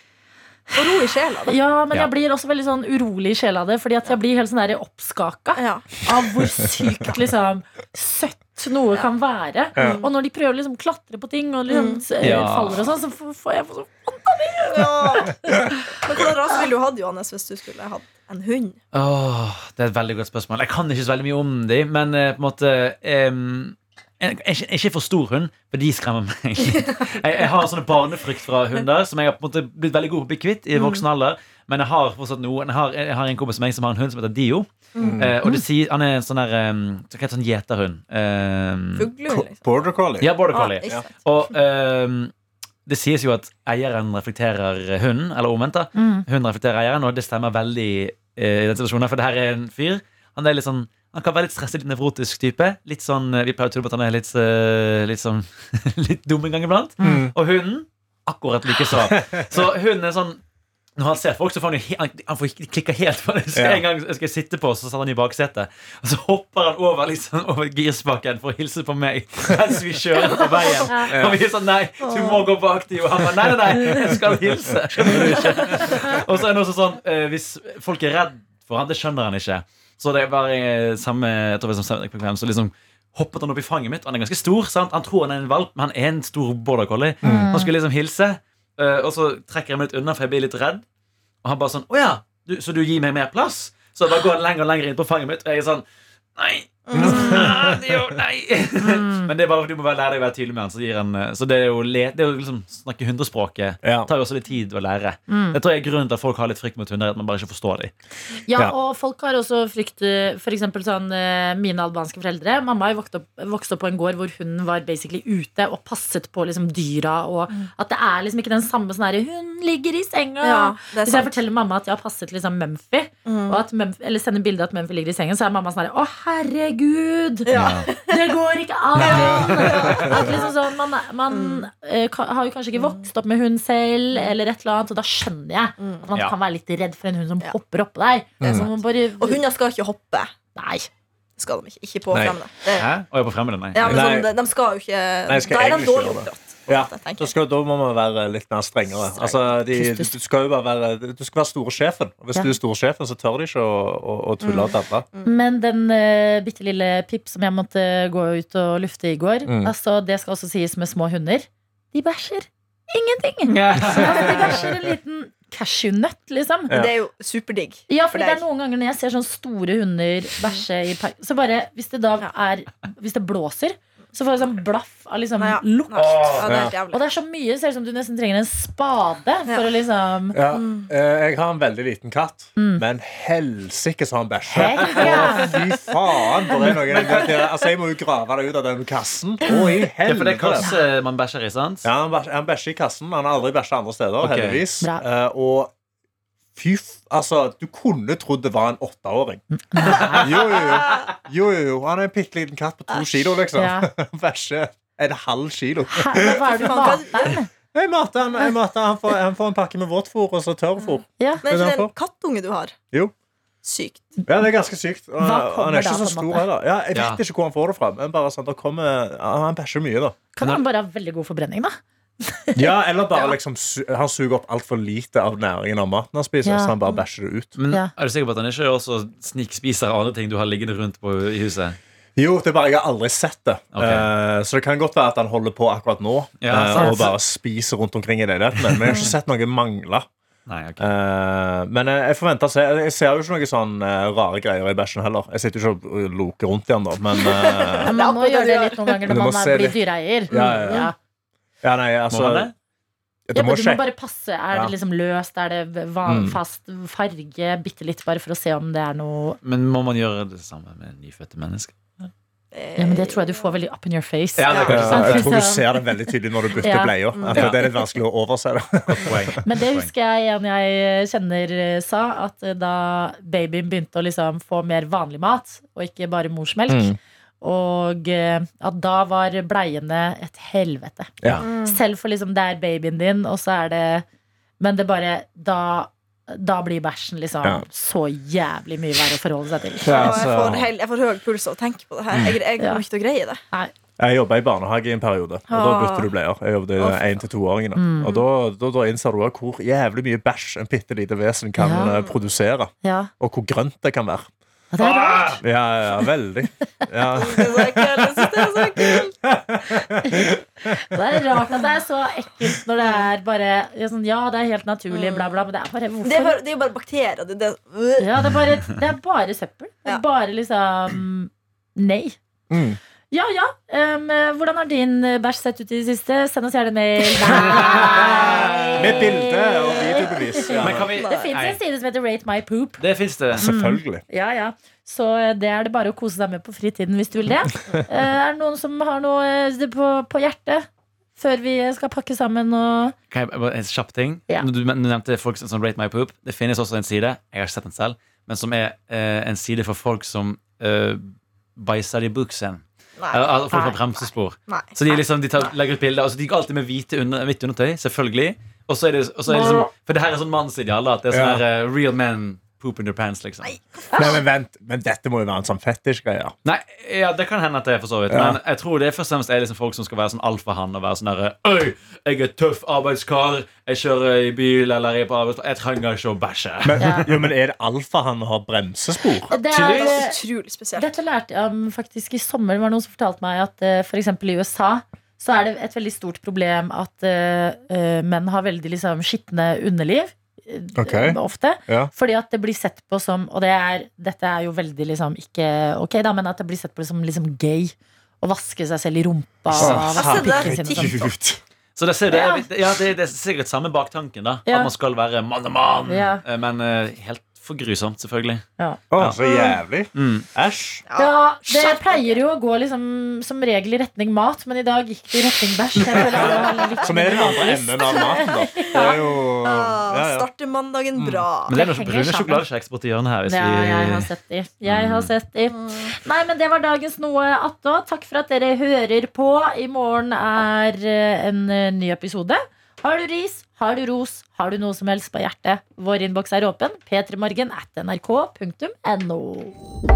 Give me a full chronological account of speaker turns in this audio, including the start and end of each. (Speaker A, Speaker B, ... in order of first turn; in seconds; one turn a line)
Speaker A: 0.7-1.6
Speaker B: 1.5-15.7
Speaker A: 5.6-5.9
Speaker C: 9.8-10.0
Speaker A: 9.8-10.1
Speaker A: 11.7-12.1
Speaker D: 12.2-12.9
Speaker A: 14.7-18.8
Speaker D: 18.9-39.1
Speaker A: 30.7-31.0
Speaker A: 34.9-35.2
Speaker C: 35.0-35.3
Speaker A: 39.0-39.6
Speaker C: 39.3-41.0
Speaker D: 40.2-42.3
Speaker A: 40.5-41.2
Speaker D: 42.9-60.4
Speaker B: 45.9-46.2
Speaker B: 57.0-57.3
Speaker C: 57.0-57.3
Speaker C: 59.1-59.4
Speaker D: 61.0-90.8
Speaker C: 63.5-63.8
Speaker A: 70.4-70.9
Speaker C: 71.1-71.4
Speaker A: 72.0-72.4
Speaker C: 87.2-87.5
Speaker B: 87.2-87.7
Speaker D: 91.4-95.8
Speaker D: 96.4-107.9
Speaker A: 96.9-97.4
Speaker C: 96.9-97.9
Speaker B: 99.0-99.3
Speaker C: 103.8-104.1
Speaker B: 105.3-105.6
Speaker B: 108.5-127.5
Speaker A: 120.4-121.4
Speaker A: 123.3-123.6
Speaker A: 127.4-128.3
Speaker D: 127.5-127.9
Speaker B: 128.1-139.4
Speaker A: 129.0-130.5
Speaker C: 129.0-130.4
Speaker A: 131.3-131.7
Speaker A: 135.8-136.1
Speaker A: 138.4-140.3
Speaker B: 140.6-140.9
Speaker A: 141.4-142.9
Speaker C: 142.1-142.4
Speaker D: 142.7-144.0
Speaker A: 143.7-147.3
Speaker C: 143.8-144.3
Speaker C: 145.3-155.1
Speaker A: 149.1-149.4
Speaker B: 149.7-150.1
Speaker A: 154.4-155.3
Speaker B: 155.2-166.8
Speaker C: 159.4-159.7
Speaker D: 163.5-164.7
Speaker A: 166.7-168.4
Speaker B: 167.9-180.4
Speaker A: 175.4-177.1
Speaker D: 175.9-176.6
Speaker C: 176.4-176.7
Speaker C: 180.3-190.7
Speaker A: 180.5-180.9
Speaker B: 182.6-182.8
Speaker B: 184.4-185.6
Speaker D: 184.8-185.1
Speaker D: 186.7-187.7
Speaker B: 189.5-189.8
Speaker D: 190.1-191.9
Speaker C: 191.8-195.7
Speaker D: 194.2-194.6
Speaker C: 196.6-206.9
Speaker B: 199.7-200.6
Speaker A: 200.7-201.0
Speaker B: 203.5-203.9
Speaker B: 205.9-207.5
Speaker A: 206.2-207.3
Speaker C: 207.7-211.9
Speaker B: 211.2-211.4
Speaker A: 211.4-212.8
Speaker A: 213.6-214.1
Speaker C: 214.3-220.2
Speaker B: 215.2-216.4
Speaker D: 216.9-217.2
Speaker B: 220.4-222.7
Speaker C: 222.6-227.5
Speaker B: 226.4-226.8
Speaker D: 227.6-231.8
Speaker C: 232.2-240.1
Speaker D: 233.7-234.1
Speaker D: 236.4-237.1
Speaker B: 236.7-237.1
Speaker D: 240.5-240.8
Speaker C: 240.8-247.9
Speaker A: 247.2-249.1
Speaker B: 247.9-250.9
Speaker C: 249.1-249.8
Speaker C: 250.3-250.9
Speaker A: 250.3-250.9
Speaker C: 251.6-252.5
Speaker D: 252.1-252.5
Speaker C: 253.3-253.8
Speaker B: 253.3-259.4
Speaker C: 256.1-256.4
Speaker D: 259.4-261.7
Speaker A: 262.5-263.5
Speaker B: 262.8-266.1
Speaker D: 264.4-265.4
Speaker A: 264.5-264.8
Speaker C: 264.6-269.4
Speaker B: 266.6-266.9
Speaker A: 267.1-267.5
Speaker D: 267.3-267.6
Speaker D: 268.9-269.9
Speaker B: 269.4-284.1
Speaker C: 276.7-276.9
Speaker A: 281.4-281.8
Speaker B: 284.6-290.3
Speaker C: 289.8-290.7
Speaker A: 289.9-293.4
Speaker C: 292.1-292.4
Speaker B: 292.6-292.8
Speaker C: 294.0-304.3
Speaker A: 295.5-296.1
Speaker A: 296.8-297.2
Speaker B: 297.7-298.2
Speaker B: 301.6-302.0
Speaker B: 302.8-303.1
Speaker B: 304.7-305.4
Speaker D: 304.8-305.4
Speaker C: 305.4-310.7
Speaker A: 307.1-309.1
Speaker B: 310.0-316.4
Speaker A: 312.8-313.1
Speaker A: 314.9-315.3
Speaker A: 316.0-318.1
Speaker B: 318.0-322.2
Speaker C: 322.5-322.8
Speaker B: 323.1-332.8
Speaker D: 327.5-328.8
Speaker C: 328.0-330.9
Speaker D: 330.6-331.6
Speaker A: 330.8-331.3
Speaker D: 332.8-333.4
Speaker C: 333.4-334.0
Speaker B: 333.4-342.9
Speaker D: 343.1-363.5
Speaker A: 353.0-353.3
Speaker B: 353.5-353.8
Speaker A: 353.9-355.0
Speaker B: 359.3-359.7
Speaker C: 361.1-361.4
Speaker A: 363.4-364.2
Speaker C: 363.9-366.4
Speaker D: 366.4-377.2
Speaker C: 368.1-368.4
Speaker C: 376.6-379.3
Speaker B: 376.8-377.1
Speaker B: 379.3-380.2
Speaker A: 379.4-380.9
Speaker D: 379.5-380.1
Speaker B: 380.8-401.1
Speaker C: 390.8-391.9
Speaker C: 399.5-401.4
Speaker A: 399.6-401.1
Speaker D: 401.8-408.4
Speaker B: 402.1-402.4
Speaker B: 404.4-404.7
Speaker B: 405.9-406.2
Speaker B: 408.6-409.5
Speaker C: 408.9-410.8
Speaker D: 409.9-410.3
Speaker A: 410.9-412.2
Speaker B: 411.0-419.0
Speaker C: 415.8-420.3
Speaker A: 416.0-416.9
Speaker A: 417.9-421.5
Speaker C: 420.9-421.2
Speaker D: 421.5-424.1
Speaker B: 421.5-422.4
Speaker B: 423.3-439.6
Speaker D: 424.6-425.1
Speaker A: 425.5-425.9